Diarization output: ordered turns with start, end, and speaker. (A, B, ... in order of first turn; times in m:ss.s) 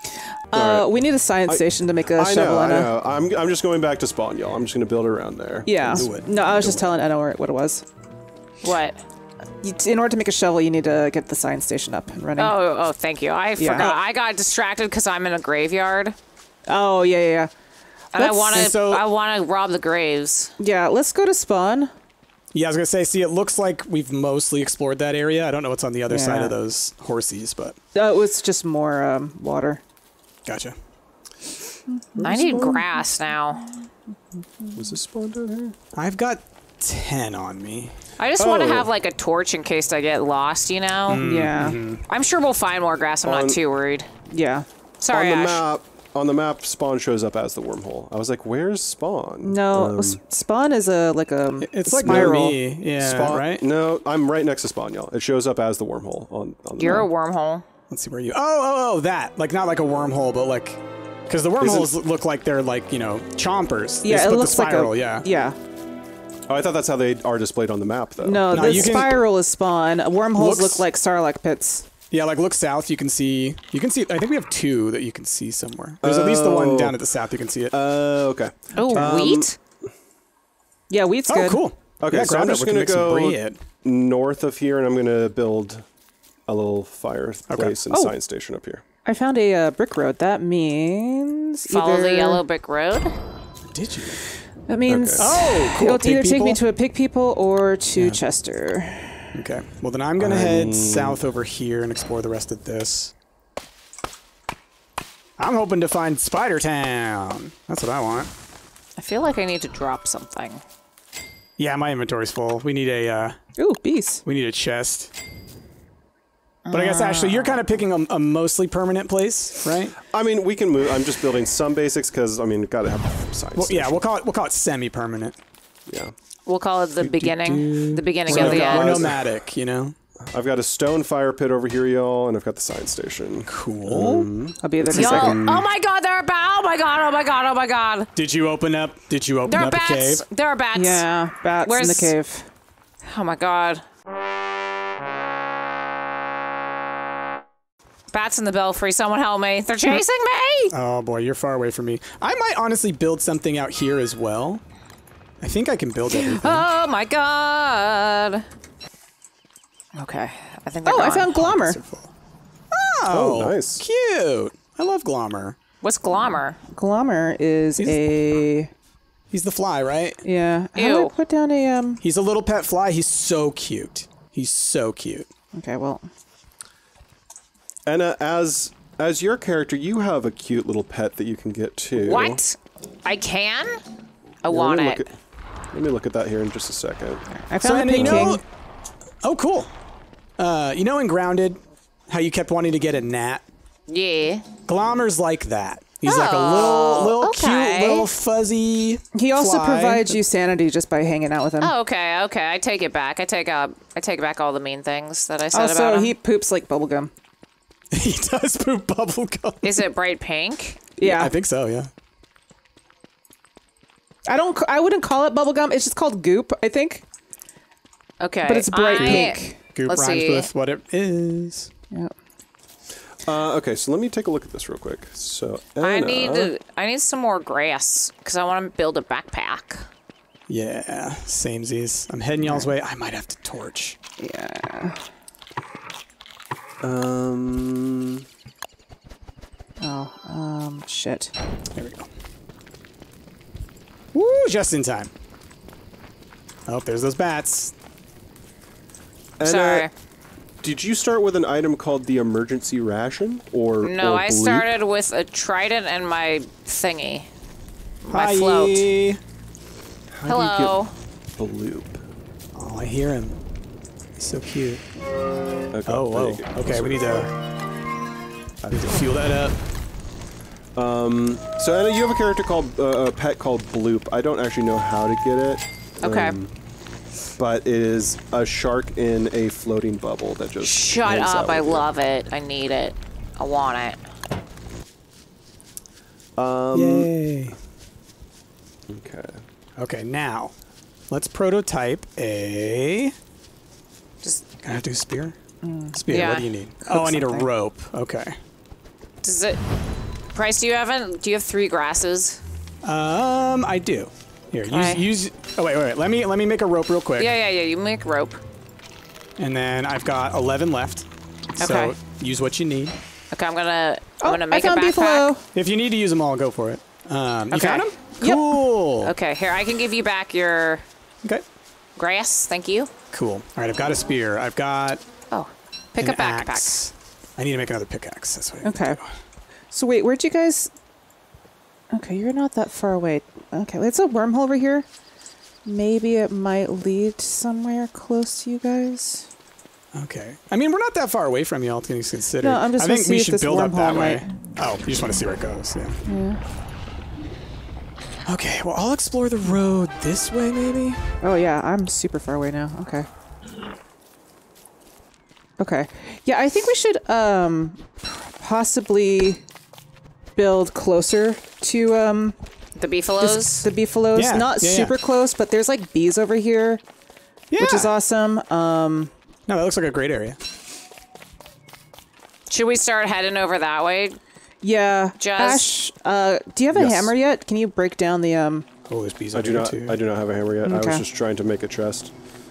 0:00.5-0:02.9 A
0:00.5-0:00.9 B
0:01.5-0:06.2 B
0:05.6-0:07.8 A
0:05.9-0:06.8 C
0:08.6-0:09.0 D
0:09.6-0:12.6 A
0:12.4-0:16.2 D
0:13.6-0:14.0 A
0:16.7-0:17.5 A
0:18.1-0:20.5 D
0:18.2-0:18.7 A
0:18.5-0:19.0 C
0:20.6-0:21.9 A
0:22.5-0:27.8 C
0:26.1-0:26.6 A
0:27.9-0:29.8 A
0:30.4-0:30.7 C
0:31.9-0:32.8 A
0:32.2-0:32.8 B
0:32.2-0:33.6 D
0:34.7-0:35.8 B
0:35.9-0:37.9 C
0:38.2-0:41.3 D
0:38.4-0:38.9 B
0:41.1-0:42.0 C
0:41.2-0:41.8 A
0:42.1-0:44.1 D
0:43.2-0:43.6 B
0:44.3-0:44.6 A
0:45.0-0:45.6 D
0:45.1-0:50.2 B
0:49.4-0:52.5 A
0:51.6-0:53.6 C
0:52.0-0:57.1 B
0:56.8-0:57.6 D
0:57.9-1:05.3 C
1:01.6-1:01.9 B
1:04.0-1:05.6 A
1:06.5-1:09.2 B
1:08.2-1:11.8 A
1:08.5-1:09.2 C
1:10.4-1:10.8 C
1:12.1-1:17.8 C
1:16.0-1:17.0 B
1:17.7-1:19.5 B
1:18.8-1:19.6 D
1:18.8-1:19.0 A
1:20.9-1:21.6 A
1:21.3-1:23.6 C
1:22.0-1:25.8 B
1:26.5-1:28.8 B
1:27.5-1:27.8 C
1:27.9-1:28.1 A
1:29.0-1:32.4 A
1:31.7-1:33.1 D
1:33.7-1:34.2 C
1:34.7-1:39.4 A
1:34.9-1:35.3 B
1:35.2-1:36.6 C
1:39.3-1:43.1 C
1:40.2-1:41.2 B
1:45.4-1:48.3 C
1:49.0-1:50.6 D
1:51.6-1:53.4 C
1:53.6-1:54.2 A
1:54.2-1:55.1 C
1:56.6-1:57.6 D
1:56.7-2:00.0 C
2:00.0-2:04.0 B
2:03.6-2:05.4 C
2:05.9-2:06.1 B
2:06.4-2:09.1 D
2:07.0-2:09.9 C
2:08.3-2:09.2 B
2:10.3-2:14.6 B
2:13.5-2:14.3 C
2:14.6-2:15.4 A
2:14.8-2:15.6 C
2:14.9-2:18.1 D
2:18.2-2:20.2 C
2:19.4-2:21.0 D
2:20.7-2:22.5 A
2:21.6-2:22.1 D
2:23.0-2:23.8 D
2:28.1-2:30.7 D
2:30.7-2:34.6 C
2:35.4-2:36.7 C
2:36.1-2:38.4 D
2:39.9-2:41.3 D
2:40.8-2:41.8 A
2:41.3-2:42.1 C
2:42.7-2:45.6 C
2:43.1-2:43.8 B
2:45.8-2:46.6 D
2:46.7-2:48.7 A
2:49.3-2:50.2 C
2:50.2-2:52.0 A
2:50.8-2:51.1 D
2:52.0-2:55.3 C
2:55.6-2:56.0 A
2:57.8-3:02.4 B
3:02.0-3:03.8 D
3:04.4-3:05.0 D
3:04.4-3:05.2 B
3:05.7-3:07.2 B
3:07.3-3:08.4 A
3:07.6-3:08.4 C
3:07.9-3:08.3 B
3:09.2-3:09.7 C
3:10.4-3:13.4 C
3:13.9-3:14.5 D
3:14.6-3:20.2 C
3:16.0-3:18.1 D
3:19.1-3:21.7 A
3:21.6-3:26.1 D
3:25.5-3:27.1 A
3:27.9-3:29.8 C
3:29.6-3:30.8 D
3:31.0-3:31.3 A
3:31.0-3:31.9 C
3:34.3-3:37.0 A
3:38.2-3:40.5 D
3:38.4-3:39.6 A
3:38.9-3:41.7 C
3:43.2-3:46.5 B
3:45.8-3:49.9 D
3:50.5-3:54.0 C
3:52.4-3:52.7 A
3:54.2-3:55.0 A
3:56.8-3:58.2 B
3:59.8-4:01.3 A
4:01.7-4:02.1 C
4:04.1-4:05.1 C
4:06.7-4:07.7 C
4:09.4-4:09.9 B
4:09.4-4:09.9 D
4:10.6-4:14.7 B
4:13.8-4:17.3 D
4:18.0-4:18.9 D
4:18.1-4:19.2 C
4:20.1-4:20.8 B
4:20.2-4:20.9 D
4:21.4-4:22.0 B
4:22.5-4:23.4 C
4:24.2-4:24.8 C
4:25.7-4:27.3 B
4:25.9-4:27.3 C
4:28.6-4:29.1 B
4:28.7-4:29.6 C
4:30.7-4:36.5 B
4:36.0-4:36.3 D
4:37.4-4:41.9 B
4:40.6-4:44.0 D
4:46.4-4:47.1 B
4:46.7-4:47.6 C
4:48.9-4:49.4 B
4:49.8-4:50.5 C
4:51.1-4:53.1 C
4:54.4-4:55.4 C
4:55.6-4:56.0 A
4:55.9-4:58.4 C
4:56.1-4:56.5 D
4:56.8-4:57.5 A
4:59.2-4:59.6 D
5:00.3-5:02.4 D
5:02.8-5:07.3 C
5:04.6-5:05.0 D
5:07.2-5:08.4 D
5:09.4-5:11.1 C
5:11.6-5:13.0 C
5:11.6-5:11.9 D
5:13.3-5:15.3 D
5:14.2-5:15.4 A
5:15.5-5:19.1 C
5:17.5-5:17.9 D
5:17.6-5:18.5 A
5:19.0-5:20.8 D
5:22.0-5:22.9 D
5:23.1-5:25.0 C
5:25.3-5:26.8 D
5:26.0-5:29.0 C
5:28.6-5:29.0 A
5:29.7-5:30.7 A
5:31.9-5:34.9 A
5:35.6-5:39.3 A
5:39.9-5:46.0 C
5:42.4-5:44.2 A
5:46.0-5:46.4 A
5:48.2-5:51.1 C
5:51.2-5:53.1 A
5:55.6-5:59.4 A
6:00.4-6:02.4 A
6:02.8-6:03.7 D
6:03.2-6:06.8 A
6:04.1-6:04.9 C
6:07.5-6:07.9 C
6:07.6-6:09.1 A
6:09.5-6:10.4 C
6:12.5-6:14.2 D
6:14.6-6:18.6 A
6:15.2-6:15.7 D
6:16.7-6:17.1 B
6:18.9-6:20.0 C
6:19.3-6:22.1 B
6:20.6-6:21.0 A